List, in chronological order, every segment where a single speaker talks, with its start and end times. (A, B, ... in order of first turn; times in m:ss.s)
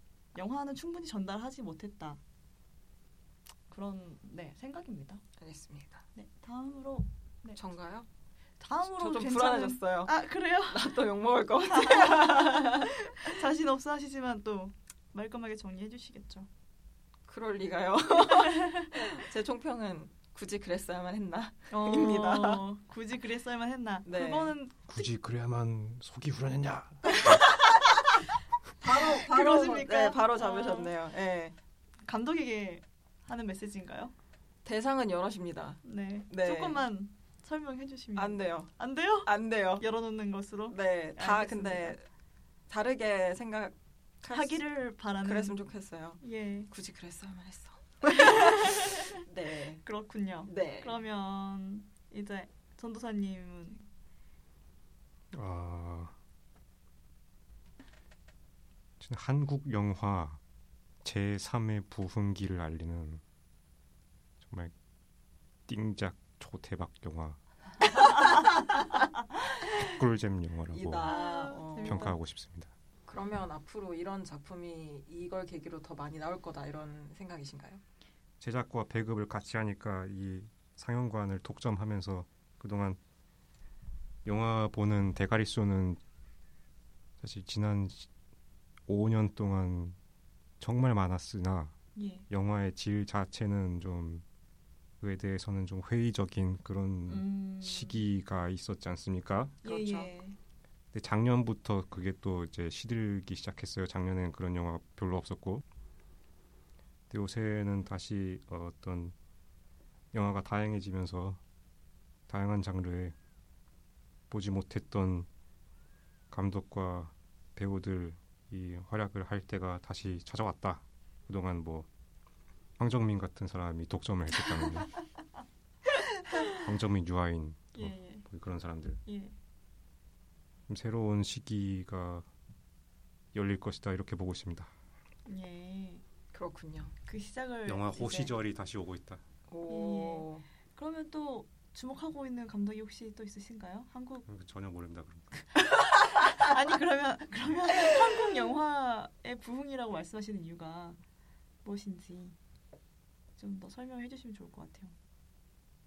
0:00.3-0:02.2 A
0:03.7-0:05.2 A
0:05.4-0:06.0 B
0:06.1-0:07.6 A
0:07.6-0:08.1 B
0:08.6-0:11.0 A
0:08.8-0:10.1 B
0:10.7-0:12.9 B
0:11.6-0:16.5 A
0:17.3-0:22.6 B
0:18.3-0:19.2 A
0:21.7-0:25.1 A
0:24.0-0:24.6 B
0:24.9-0:27.4 C
0:27.1-0:27.4 A
0:28.8-0:30.9 A
0:28.8-0:31.5 B
0:32.1-0:34.1 A
0:34.6-0:36.8 B
0:35.8-0:42.0 A
0:38.2-0:38.7 B
0:39.2-0:39.8 B
0:40.7-0:42.0 B
0:42.7-0:49.8 B
0:44.3-0:45.6 A
0:46.2-0:46.7 A
0:48.0-0:49.2 A
0:49.8-0:53.8 A
0:50.5-0:51.0 B
0:55.3-0:56.2 C
0:59.0-1:00.4 C
1:01.0-1:03.2 C
1:04.4-1:04.7 C
1:05.7-1:07.4 C
1:09.8-1:11.1 C
1:10.7-1:12.1 B
1:11.0-1:12.2 A
1:11.8-1:12.7 C
1:13.0-1:17.8 B
1:18.4-1:23.0 C
1:24.2-1:26.0 C
1:27.2-1:28.1 C
1:28.9-1:30.0 C
1:30.6-1:31.7 C
1:32.0-1:32.3 A
1:32.3-1:34.2 C
1:35.0-1:39.6 C
1:37.1-1:38.1 A
1:39.6-1:40.1 B
1:39.6-1:40.4 A
1:40.9-1:45.6 C
1:47.1-1:49.1 C
1:50.1-1:51.4 C
1:52.3-1:53.2 C
1:54.3-1:55.3 C
1:56.3-2:01.9 C
2:02.8-2:04.9 C
2:06.2-2:06.6 A
2:06.5-2:09.0 C
2:07.7-2:08.2 A
2:09.0-2:09.3 A
2:10.7-2:12.3 C
2:13.3-2:14.7 C
2:15.2-2:16.0 A
2:16.3-2:16.9 B
2:17.0-2:18.3 A
2:17.6-2:19.2 C
2:19.5-2:20.4 B
2:19.7-2:24.2 A
2:24.3-2:25.3 C
2:25.5-2:31.0 A
2:31.6-2:32.4 A
2:33.4-2:34.9 A